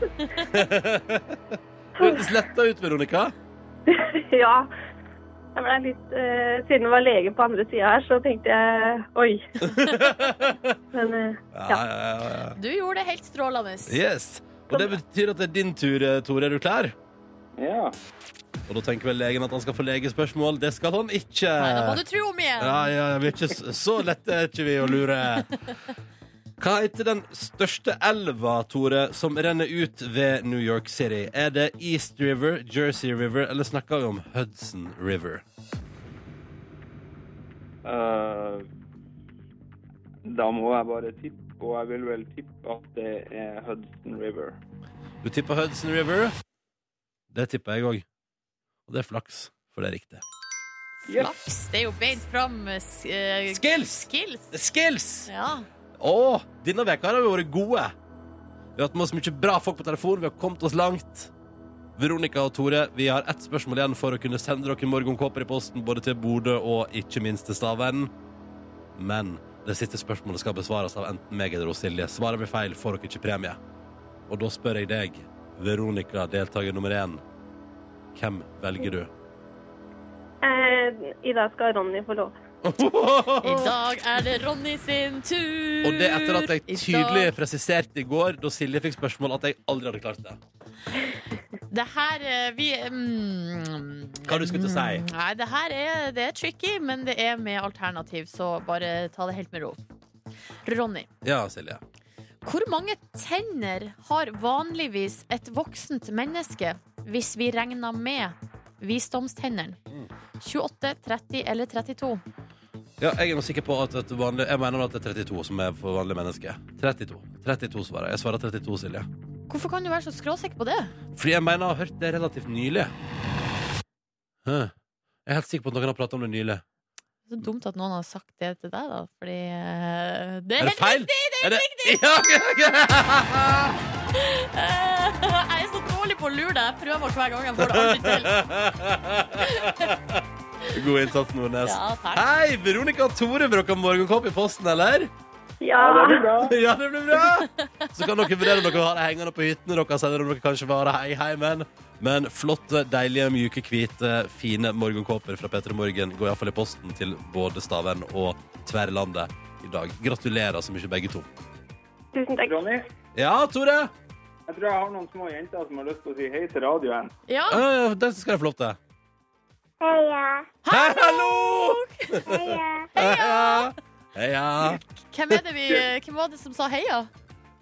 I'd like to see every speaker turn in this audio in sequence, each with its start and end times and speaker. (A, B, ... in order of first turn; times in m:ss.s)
0:00.5-0:01.4 A
0:02.0-0:03.3 A
0:03.9-0:04.7 B
0:05.6-0:09.4 B
0:09.6-0:10.7 A
0:10.9-0:11.8 B
0:11.5-0:12.6 A
0:12.6-0:14.0 C
0:13.9-0:16.9 A
0:17.6-0:17.9 D
0:18.7-0:22.0 A
0:21.6-0:22.9 C
0:22.6-0:25.5 A
0:26.6-0:35.4 A
0:37.8-0:38.6 D
0:40.2-0:44.6 D
0:45.2-0:46.4 A
0:47.3-0:48.0 A
0:48.9-0:50.2 A
0:51.1-0:51.3 D
0:51.1-0:54.6 C
0:53.5-0:55.3 A
0:55.3-0:55.6 C
0:56.0-0:57.9 A
0:58.8-1:01.3 A
1:02.0-1:08.1 A
1:09.0-1:13.6 A
1:14.3-1:17.2 A
1:18.1-1:19.1 A
1:20.4-1:22.3 B
1:22.6-1:23.7 A
1:23.4-1:27.3 C
1:25.8-1:30.4 A
1:31.7-1:39.8 C
1:34.3-1:35.0 A
1:40.6-1:41.1 C
1:41.2-1:41.8 A
1:42.4-1:49.8 C
1:50.4-1:52.2 C
1:53.0-1:59.1 A
1:59.5-2:00.9 C
2:01.1-2:02.9 A
2:04.4-2:04.7 A
2:05.2-2:06.6 A
2:07.3-2:12.0 C
2:10.6-2:13.8 A
2:14.1-2:18.4 C
2:17.6-2:25.1 A
2:19.4-2:19.9 C
2:21.6-2:22.2 C
2:25.6-2:26.3 B
2:25.8-2:26.5 D
2:26.4-2:41.3 A
2:27.3-2:27.9 C
2:42.1-2:42.6 B
2:42.4-2:42.8 D
2:43.1-2:43.9 A
2:44.5-2:47.1 D
2:47.3-2:47.6 C
2:47.5-2:48.8 A
2:49.8-2:50.4 B
2:50.6-2:52.2 C
2:50.7-2:54.8 A
2:52.3-2:52.8 B
2:52.9-2:53.7 C
2:54.7-2:57.1 C